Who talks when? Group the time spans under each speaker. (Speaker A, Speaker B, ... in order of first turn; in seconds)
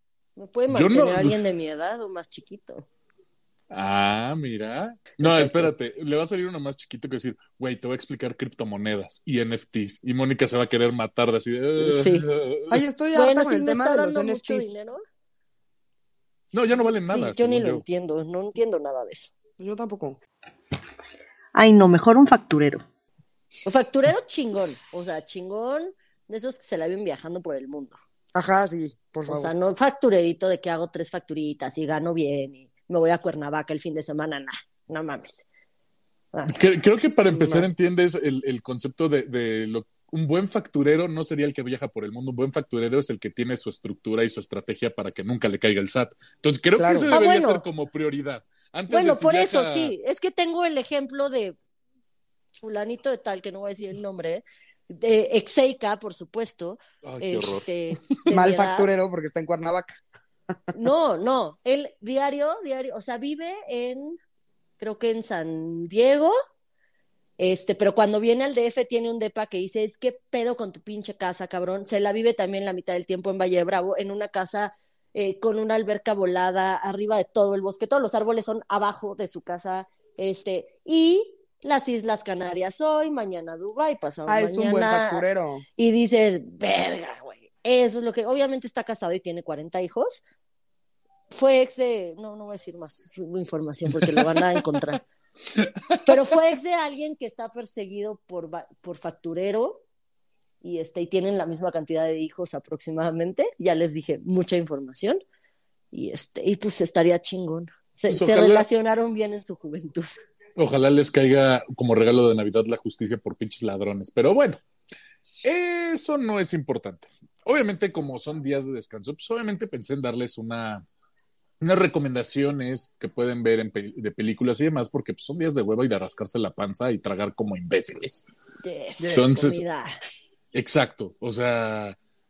Speaker A: 0.3-2.9, 5.2-5.7, 11.8-12.3, 13.1-15.0, 16.9-19.3, 21.5-22.8, 23.6-28.0, 29.2-35.5, 36.3-36.6, 47.1-47.6, 48.9-51.6, 52.6-58.9, 60.7-64.2, 64.8-66.3, 67.4-85.2, 85.8-90.2, 91.3-95.0, 96.0-99.8, 100.6-105.2, 105.9-110.1, 128.6-129.9
Speaker B: 0.7-1.4, 3.7-12.8, 16.5-17.8, 36.5-49.9, 57.0-58.1, 94.0-94.4, 95.5-96.1, 108.1-108.7, 110.5-114.6, 115.4-120.8, 121.6-128.2, 129.1-129.6, 130.5-131.9
Speaker C: 12.7-14.7, 19.6-20.2, 28.3-29.5, 37.3-37.7, 46.8-47.1, 58.3-60.0, 84.3-85.6, 129.0-129.4